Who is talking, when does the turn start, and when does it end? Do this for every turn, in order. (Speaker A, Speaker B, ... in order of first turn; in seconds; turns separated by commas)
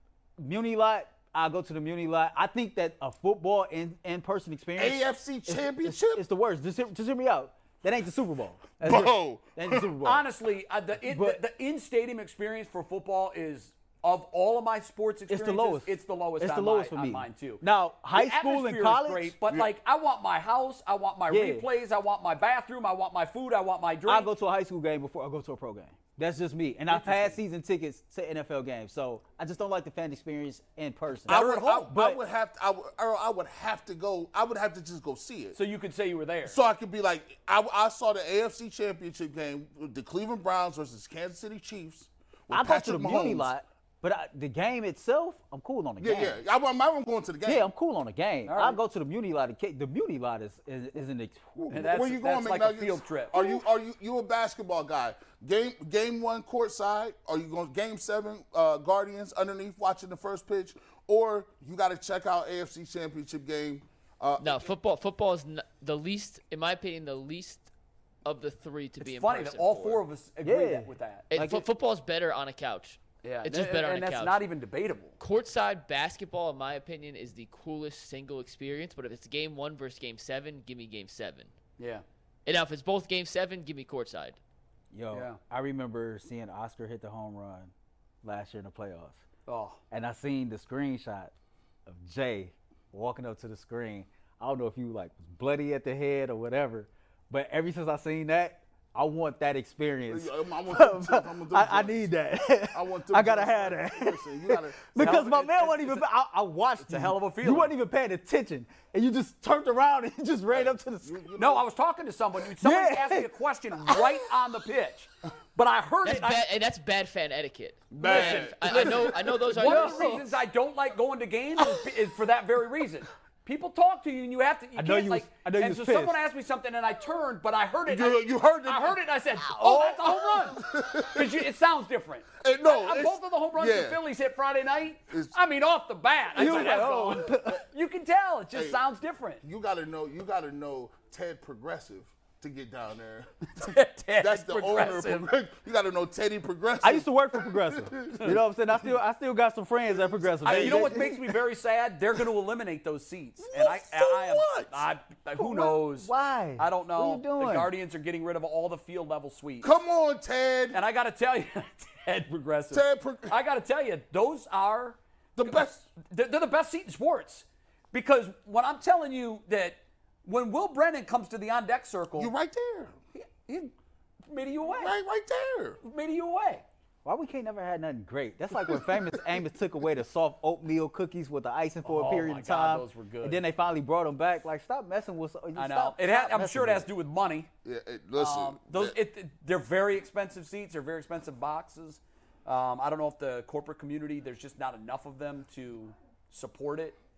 Speaker A: 0.4-10.2, Speaker B: 4.8-6.2, Speaker B: 8.8-9.9, Speaker C: 10.0-24.3, Speaker A: 11.0-11.4, Speaker A: 15.3-19.4, Speaker B: 19.5-19.7, Speaker A: 21.3-21.7, Speaker A: 24.1-32.2, Speaker C: 26.9-27.4, Speaker B: 31.2-35.6, Speaker C: 31.3-31.9, Speaker C: 35.5-36.6, Speaker B: 36.4-43.5, Speaker A: 42.5-46.4, Speaker B: 46.0-47.7, Speaker A: 47.5-51.9, Speaker C: 48.5-48.8, Speaker B: 51.7-64.7, Speaker C: 51.7-53.6, Speaker D: 64.4-67.7, Speaker D: 68.2-70.0, Speaker C: 69.0-71.3, Speaker A: 70.4-71.7, Speaker D: 71.3-74.4, Speaker C: 73.2-75.2, Speaker D: 75.2-81.5, Speaker C: 81.8-82.0, Speaker D: 82.5-84.4, Speaker A: 84.9-87.7, Speaker C: 85.1-85.4, Speaker A: 88.2-89.2, Speaker C: 89.5-89.8, Speaker A: 89.9-91.3, Speaker A: 91.8-111.2, Speaker B: 100.1-102.2, Speaker B: 102.7-105.2, Speaker C: 104.9-106.0, Speaker C: 106.8-107.7, Speaker B: 110.5-111.7, Speaker C: 111.3-116.4, Speaker A: 112.5-113.3, Speaker A: 113.9-114.1, Speaker D: 116.0-120.2, Speaker B: 117.9-119.4, Speaker C: 118.0-139.4, Speaker A: 119.5-120.3, Speaker A: 124.7-126.2, Speaker B: 127.9-131.4, Speaker A: 129.6-130.4, Speaker B: 132.4-134.0, Speaker B: 135.1-135.3, Speaker A: 136.3-137.6, Speaker B: 136.5-137.6, Speaker B: 138.5-138.8, Speaker B: 139.4-148.4, Speaker C: 143.6-145.3, Speaker A: 146.8-151.2, Speaker B: 149.9-151.3, Speaker C: 150.4-159.7, Speaker B: 153.4-154.8, Speaker A: 155.3-157.7, Speaker B: 159.6-160.8, Speaker C: 160.7-172.3, Speaker B: 162.7-163.4, Speaker B: 165.3-165.8, Speaker B: 172.2-172.9, Speaker C: 173.1-173.7, Speaker C: 174.3-174.9, Speaker B: 174.7-175.8, Speaker C: 175.8-176.6, Speaker A: 177.0-186.9, Speaker C: 181.8-183.4, Speaker C: 185.5-187.5, Speaker B: 187.6-188.9, Speaker C: 188.2-197.0